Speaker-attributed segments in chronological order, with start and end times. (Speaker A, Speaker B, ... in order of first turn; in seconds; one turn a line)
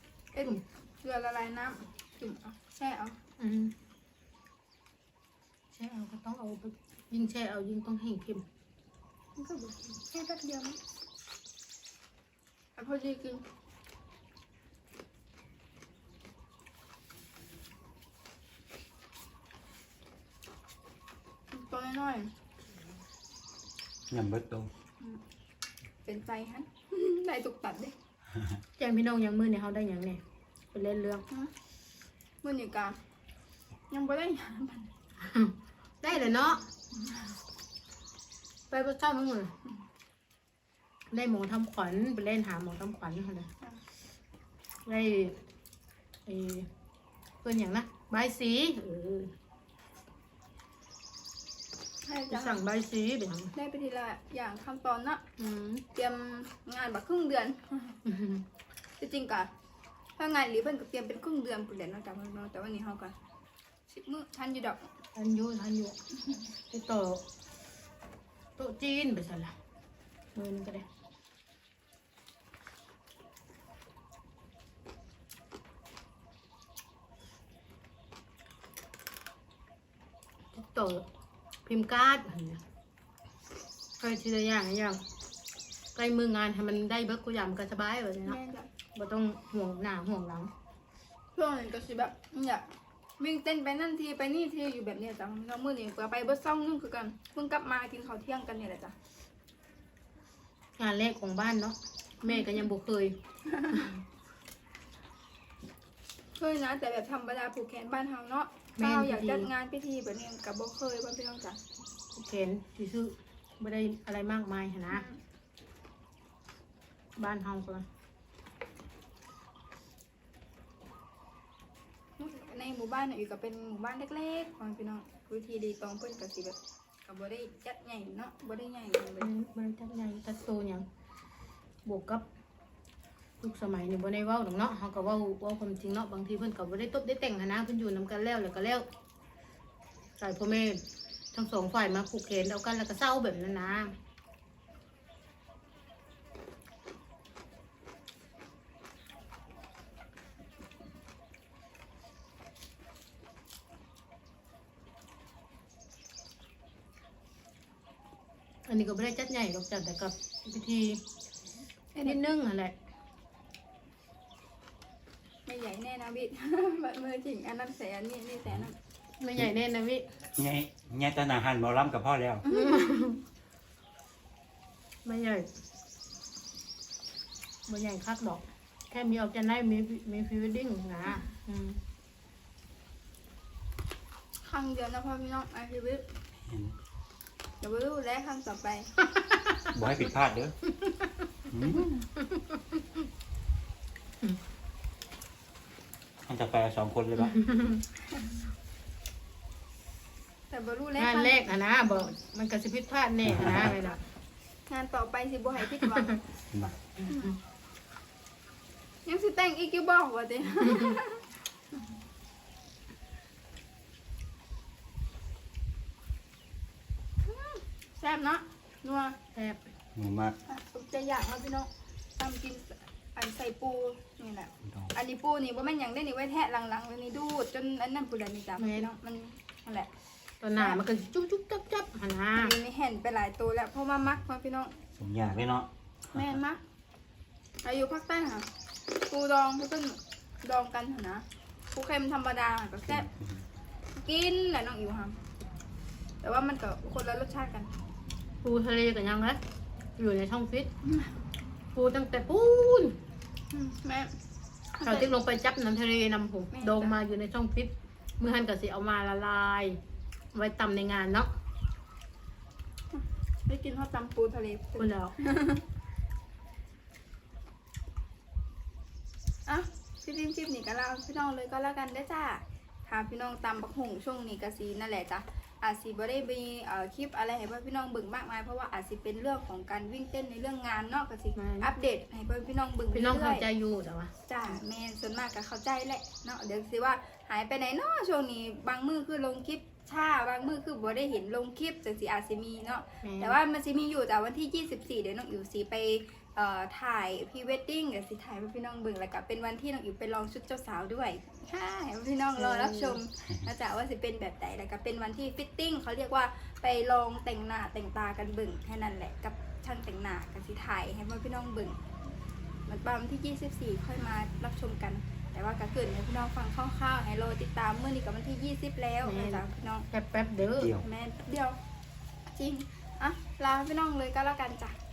Speaker A: 0.3-3.2
Speaker B: 3.4-3.8
Speaker B: 5.8-8.5
Speaker A: 9.4-10.8
Speaker A: 12.8-13.4
Speaker A: 21.5-22.3
Speaker C: 24.1-24.7
Speaker A: 26.1-27.9
Speaker B: 28.8-30.2
Speaker B: 30.7-31.2
Speaker A: 32.4-33.0
Speaker A: 33.9-34.9
Speaker B: 35.2-36.7
Speaker A: 36.9-37.3
Speaker B: 38.7-39.5
Speaker B: 41.1-43.5
Speaker B: 44.9-45.4
Speaker B: 46.3-46.7
Speaker B: 47.4-49.3
Speaker A: 52.0-52.6
Speaker B: 52.3-53.5
Speaker A: 53.5-55.2
Speaker B: 55.4-55.9
Speaker A: 56.0-58.0
Speaker B: 58.0-58.5
Speaker A: 59.0-59.5
Speaker A: 60.2-63.1
Speaker A: 63.9-64.9
Speaker B: 65.2-66.0
Speaker B: 66.7-67.2
Speaker B: 68.6-69.5
Speaker B: 70.3-70.8
Speaker B: 80.5-81.0
Speaker B: 81.7-82.6
Speaker B: 84.0-85.0
Speaker B: 86.0-88.4
Speaker A: 88.2-88.7
Speaker B: 89.0-90.5
Speaker A: 91.4-92.7
Speaker A: 93.2-99.0
Speaker B: 100.8-103.2
Speaker A: 102.2-102.7
Speaker A: 103.5-103.9
Speaker A: 106.4-111.6
Speaker B: 108.8-109.5
Speaker B: 112.1-115.1
Speaker A: 114.9-115.2
Speaker B: 117.2-117.8
Speaker A: 122.2-129.3
Speaker B: 129.2-130.9
Speaker B: 131.8-132.2
Speaker B: 133.4-138.8
Speaker B: 140.2-140.8
Speaker B: 141.3-144.0
Speaker B: 158.7-161.0
Speaker A: 161.9-162.3
Speaker B: 162.0-162.8
Speaker A: 165.5-168.8
Speaker B: 169.2-170.1
Speaker C: 170.4-172.4
Speaker A: 172.4-173.2
Speaker B: 172.5-173.2
Speaker B: 175.1-175.5
Speaker B: 177.7-181.8
Speaker A: 184.4-186.0
Speaker C: 186.5-186.7
Speaker A: 187.6-188.9
Speaker C: 189.7-190.6
Speaker C: 191.5-191.9
Speaker B: 192.2-192.8
Speaker C: 196.3-197.4
Speaker B: 197.2-197.8
Speaker A: 200.5-202.1
Speaker B: 201.0-204.0
Speaker C: 203.3-203.7
Speaker A: 203.5-204.0
Speaker A: 204.7-206.2
Speaker A: 207.1-207.3
Speaker A: 209.1-211.3
Speaker A: 217.2-219.2
Speaker B: 219.3-219.6
Speaker C: 219.9-220.3
Speaker A: 220.5-229.9
Speaker C: 224.6-224.9
Speaker B: 228.6-228.9
Speaker B: 230.4-232.6
Speaker A: 230.6-230.8
Speaker A: 232.4-234.8
Speaker C: 235.0-236.4
Speaker A: 236.1-236.6
Speaker A: 237.6-238.5
Speaker A: 239.1-243.1
Speaker C: 242.9-243.4
Speaker A: 243.9-245.2
Speaker A: 246.2-247.7
Speaker B: 248.4-249.4
Speaker B: 250.0-250.7
Speaker A: 250.8-251.2
Speaker B: 251.8-253.0
Speaker A: 253.5-254.2
Speaker A: 254.7-255.1
Speaker B: 254.8-259.8
Speaker A: 256.5-257.0
Speaker B: 260.3-261.3
Speaker A: 262.9-265.6
Speaker B: 264.8-265.1
Speaker A: 269.5-283.5
Speaker B: 281.4-281.7
Speaker B: 282.9-284.1
Speaker A: 284.3-311.8
Speaker B: 293.0-293.4
Speaker B: 302.4-303.0
Speaker A: 312.7-319.9
Speaker B: 319.0-320.7
Speaker C: 320.4-320.9
Speaker A: 320.8-321.6
Speaker A: 322.3-324.8